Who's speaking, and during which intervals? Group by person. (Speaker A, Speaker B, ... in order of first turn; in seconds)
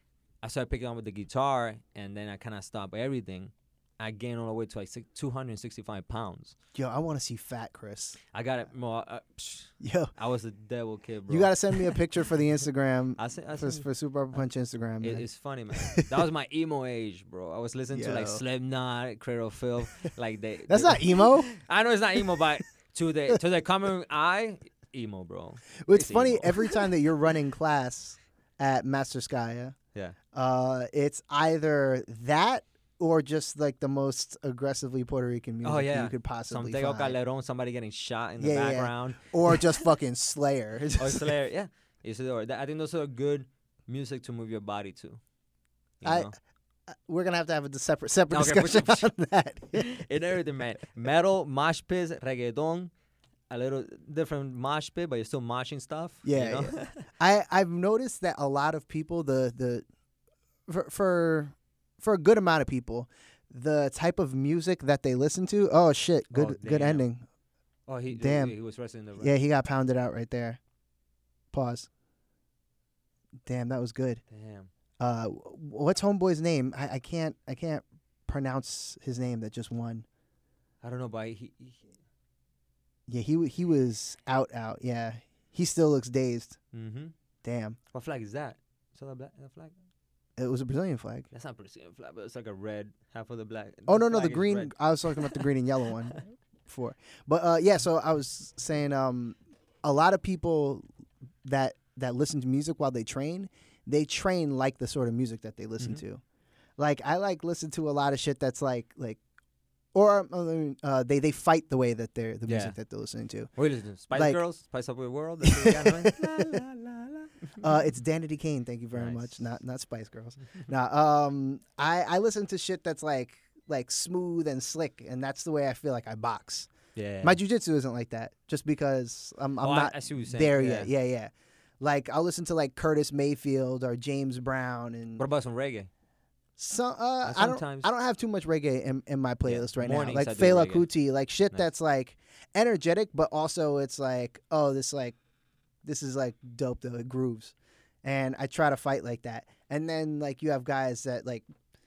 Speaker A: 0.4-6.5, 8.3-11.9, 13.2-13.8, 15.0-26.8, 35.6-39.6, 41.0-45.2, 46.0-46.3, 48.3-49.1, 49.7-52.9, 53.5-57.1, 66.3-67.1, 67.9-69.3, 74.3-74.7, 80.8-81.8, 86.7-87.1, 87.9-89.7, 91.3-95.4, 112.5-112.8, 113.5-117.7, 118.9-119.4, 126.9-127.4, 129.6-130.9, 135.2-135.9, 137.2-137.9, 139.4-140.9
Speaker B: 6.7-8.2, 9.8-10.1, 11.3-15.2, 15.8-16.2, 17.9-18.4, 20.7-21.5, 25.8-29.7, 30.3-37.2, 38.4-41.3, 46.0-46.3, 46.9-50.0, 56.2-59.9, 60.7-67.2, 68.1-68.5, 69.2-70.6, 71.5-71.9, 73.4-74.2, 75.0-80.0, 83.1-86.6, 87.4-87.8, 90.4-91.3, 93.9-100.8, 101.4-106.2, 106.8-109.2, 109.9-113.5, 114.1-114.4, 115.4-116.6, 117.6-126.7, 127.2-135.2, 136.6-145.2, 145.8-151.4